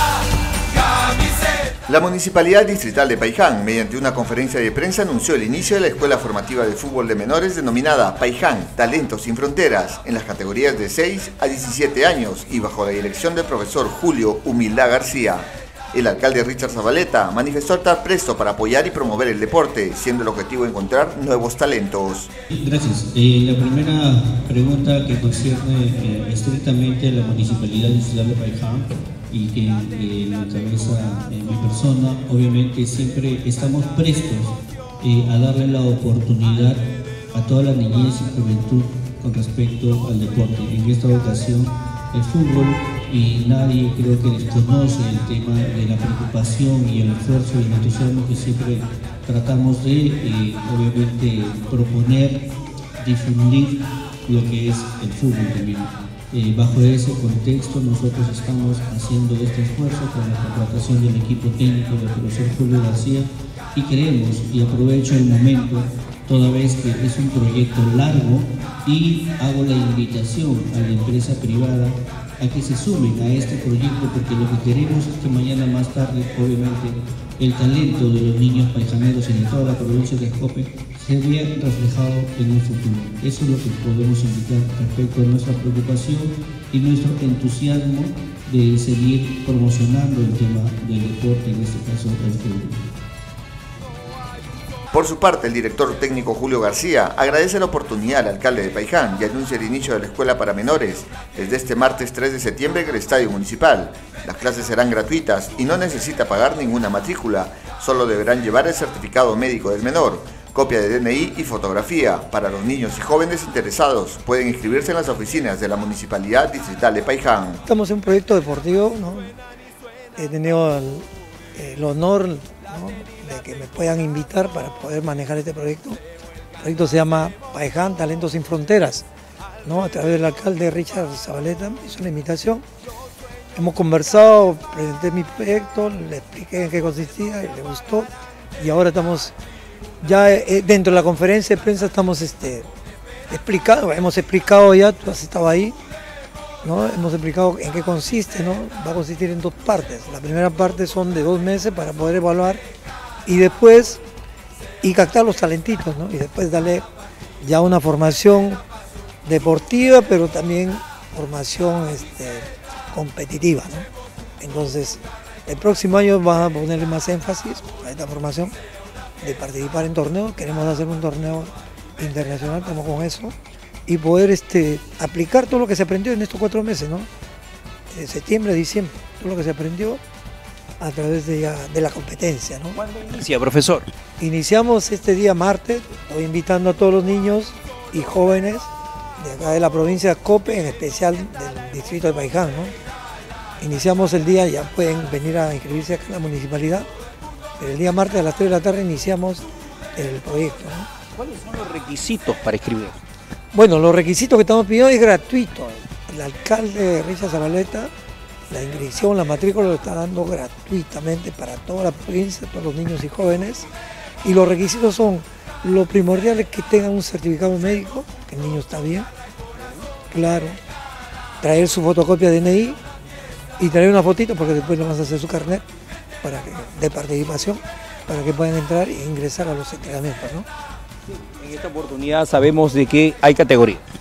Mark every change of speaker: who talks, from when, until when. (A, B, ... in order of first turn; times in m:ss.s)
0:01.9-0:22.3 A
0:22.6-0:36.8 B
0:37.3-0:52.5 B
0:53.0-1:32.8 B
1:34.9-1:57.6 A
1:57.6-1:59.3 C
2:00.2-2:06.0 C
2:06.6-2:09.0 C
2:09.6-2:12.6 C
2:13.5-2:19.3 C
2:20.0-2:22.7 C
2:23.3-2:25.7 C
2:26.6-2:32.6 C
2:33.2-2:34.0 C
2:34.8-2:36.8 C
2:37.4-2:38.6 C
2:39.2-2:43.9 C
2:44.4-2:48.5 C
2:49.2-2:53.3 C
2:53.9-2:57.1 C
2:57.9-3:00.0 C
3:00.8-3:02.8 C
3:02.8-3:03.9 D
3:04.2-3:12.7 C
3:13.6-3:16.9 C
3:17.6-3:20.9 C
3:21.2-3:23.0 D
3:23.5-3:27.9 C
3:28.5-3:33.7 C
3:34.2-3:39.1 C
3:39.6-3:39.8 D
3:40.1-3:40.6 C
3:41.4-3:42.8 C
3:43.6-3:45.6 C
3:46.2-3:50.5 C
3:51.1-3:53.8 D